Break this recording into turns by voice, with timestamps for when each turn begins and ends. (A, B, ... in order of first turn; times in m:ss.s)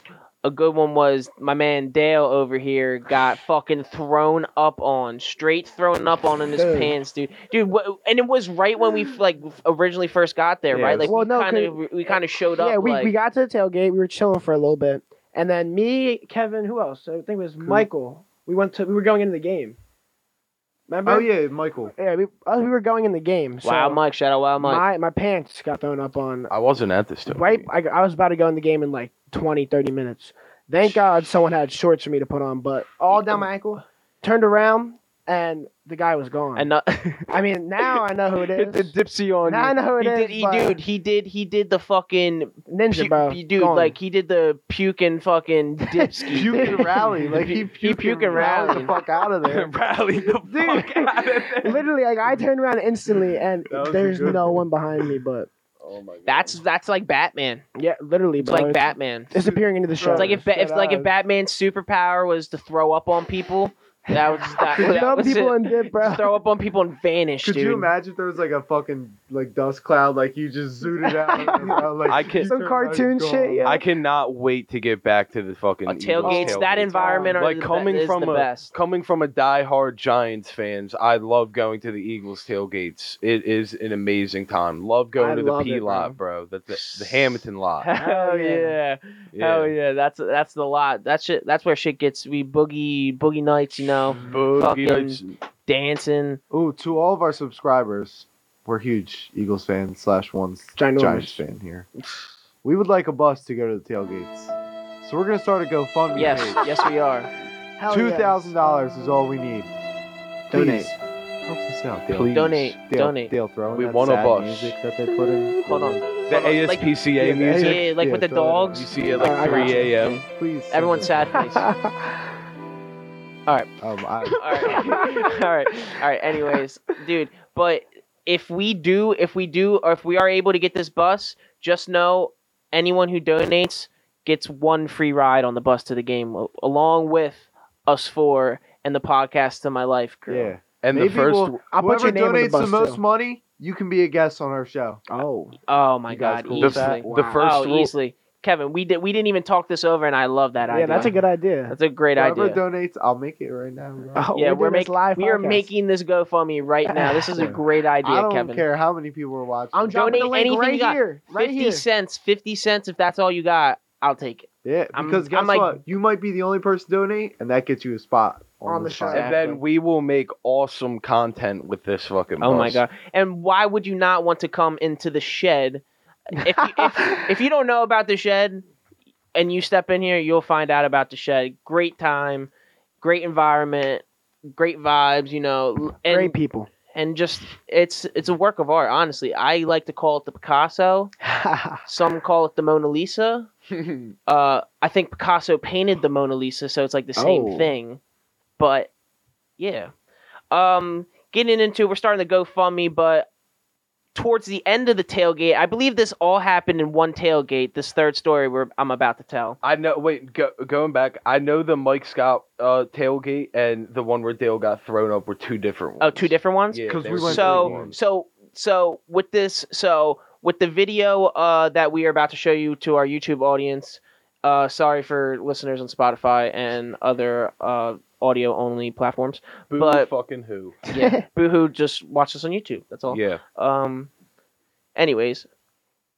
0:00.4-0:13.1 A
0:06.6-0:06.9 B
0:10.7-0:11.1 C
0:11.0-0:11.8 B
0:12.6-0:19.8 B
0:17.6-0:17.9 C
0:20.9-0:21.3 B
0:21.0-0:21.9 C
0:21.9-0:24.0 B
0:23.6-0:24.8 A
0:24.6-0:26.5 B
0:26.5-0:27.7 D
0:27.2-0:36.7 B
0:33.1-0:33.4 A
0:36.5-0:48.9 A
0:37.3-0:38.9 B
0:39.4-0:40.8 B
0:42.7-0:44.0 B
0:46.0-0:47.2 B
0:46.3-0:49.7 C
0:48.3-0:49.0 B
0:49.4-0:52.4 D
0:50.4-0:55.5 B
0:53.7-0:54.6 D
0:53.7-0:54.6 C
0:55.8-0:56.6 D
0:56.2-0:57.6 A
0:57.8-1:00.4 B
0:58.4-0:59.3 A
0:59.3-1:01.1 C
1:00.1-1:07.9 A
1:04.4-1:06.3 B
1:07.4-1:13.8 C
1:11.1-1:11.8 B
1:12.0-1:12.5 D
1:12.4-1:13.8 B
1:13.6-1:27.9 D
1:15.9-1:18.7 A
1:16.2-1:17.4 B
1:25.2-1:26.2 B
1:26.7-1:36.4 A
1:28.0-1:28.8 B
1:29.3-1:29.7 D
1:34.1-1:35.3 D
1:34.1-1:34.4 C
1:36.5-1:41.9 C
1:40.8-1:41.4 B
1:42.6-1:46.6 C
1:46.1-1:47.3 A
1:47.8-1:48.6 B
1:47.9-1:49.7 C
1:50.5-1:50.9 B
1:50.5-1:56.1 C
1:52.1-1:52.7 D
1:52.3-1:53.3 A
1:53.7-1:54.8 D
1:55.6-1:56.8 A
1:56.3-1:57.9 D
1:57.2-1:58.9 C
1:57.5-1:58.9 A
1:58.7-2:00.2 D
1:59.2-1:59.9 B
1:59.5-2:00.2 A
2:00.2-2:01.2 C
2:00.7-2:01.7 A
2:01.6-2:02.2 B
2:03.8-2:04.8 C
2:04.3-2:20.5 A
2:04.6-2:05.1 B
2:20.3-2:25.0 C
2:20.8-2:21.6 D
2:21.7-2:23.0 B
2:25.1-2:25.6 B
2:25.7-2:31.1 A
2:26.1-2:27.0 C
2:26.6-2:27.9 D
2:27.0-2:27.4 B
2:30.7-2:31.8 B
2:31.7-2:32.6 A
2:32.2-2:34.3 C
2:34.1-2:35.7 B
2:34.3-2:38.6 A
2:36.9-2:37.5 B
2:37.3-2:40.3 C
2:39.7-2:41.8 B
2:39.9-2:45.8 A
2:44.6-2:49.3 C
2:48.6-2:49.6 B
2:49.1-2:52.8 D
2:52.4-2:58.6 A
2:56.8-2:57.3 B
2:59.3-3:02.5 A
3:03.0-3:06.4 A
3:06.0-3:06.7 B
3:06.9-3:11.1 A
3:11.2-3:11.8 B
3:11.8-3:13.5 A
3:13.7-3:14.1 D
3:14.2-3:18.0 A
3:17.2-3:17.7 B
3:18.6-3:18.9 A
3:19.6-3:19.9 A
3:20.5-3:23.3 A
3:24.1-3:29.6 A
3:29.6-3:37.9 D
3:36.0-3:50.1 A
3:36.9-3:37.9 C
3:49.7-3:50.8 D
3:50.9-3:54.1 A
3:50.9-3:51.2 B
3:53.1-3:53.4 D
3:55.0-3:55.5 A